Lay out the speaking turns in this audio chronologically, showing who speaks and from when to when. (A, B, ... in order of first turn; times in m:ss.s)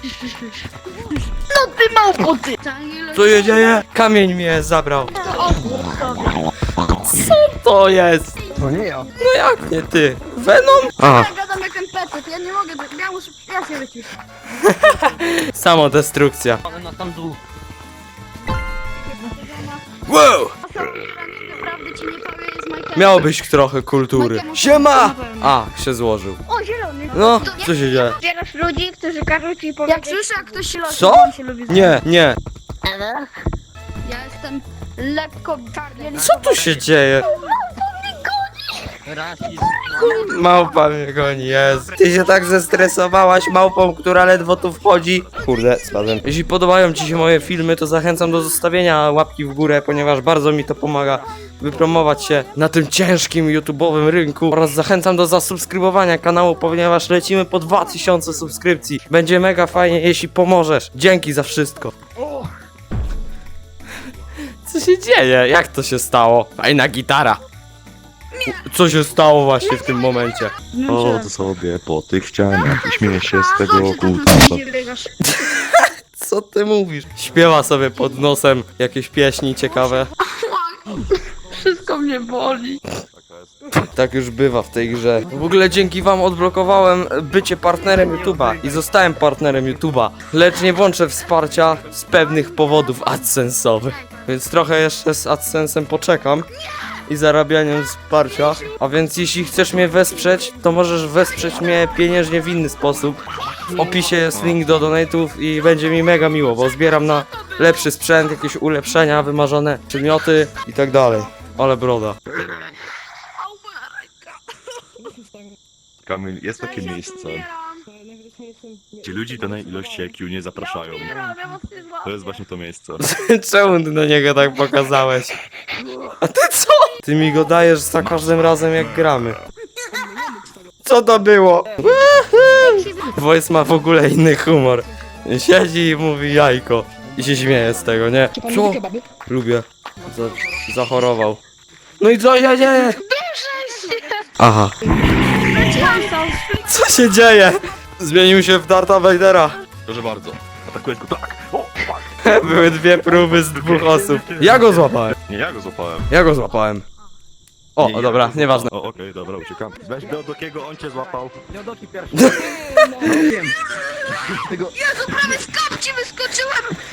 0:01.5-0:03.8 A
0:03.1-0:05.3 B
0:05.2-0:06.3 A
0:06.8-0:08.4 B
0:08.6-0:09.0 C
0:09.2-0:11.3 B
0:11.0-0:14.1 A
0:14.6-0:16.6 B
0:16.7-0:17.4 C
0:19.2-0:19.8 A
0:20.1-0:20.6 B
0:20.6-0:23.3 A
0:22.9-0:26.4 B
0:24.1-0:25.5 A
0:26.5-0:27.7 A
0:27.1-0:28.2 B
0:28.2-0:30.6 D
0:29.8-0:32.0 A
0:30.8-0:32.4 B
0:32.9-0:33.1 D
0:34.0-0:36.8 A
0:36.2-0:37.3 B
0:37.3-0:38.9 A
0:39.1-0:39.7 C
0:39.8-1:02.0 B
1:04.6-1:07.4 B
1:08.5-1:10.5 B
1:10.7-1:11.2 A
1:10.8-1:14.6 E
1:13.3-1:15.1 A
1:15.3-1:20.1 B
1:20.4-1:22.8 A
1:22.1-1:22.6 D
1:23.2-1:23.7 E
1:23.9-1:36.5 B
1:37.1-1:52.2 B
1:44.3-1:44.6 E
1:53.5-1:54.1 A
1:56.0-1:57.5 E
1:56.6-1:57.8 A
1:59.0-2:01.3 E
2:00.8-2:02.1 A
2:02.0-2:03.0 E
2:03.0-2:05.3 B
2:06.2-2:09.4 B
2:10.8-2:21.4 B
2:12.6-2:13.1 A
2:18.5-2:18.9 A
2:22.0-2:23.0 B
2:23.0-2:24.2 A
2:23.6-2:23.9 D
2:24.4-2:26.0 B
2:25.4-2:26.6 A
2:26.6-2:29.6 B
2:29.8-2:36.1 E
2:32.2-2:35.2 B
2:36.1-2:36.8 B
2:37.8-2:38.7 B
2:37.8-2:41.4 E
2:41.6-2:42.1 C
2:42.1-2:43.4 B
2:44.9-2:46.6 A
2:45.6-2:46.3 D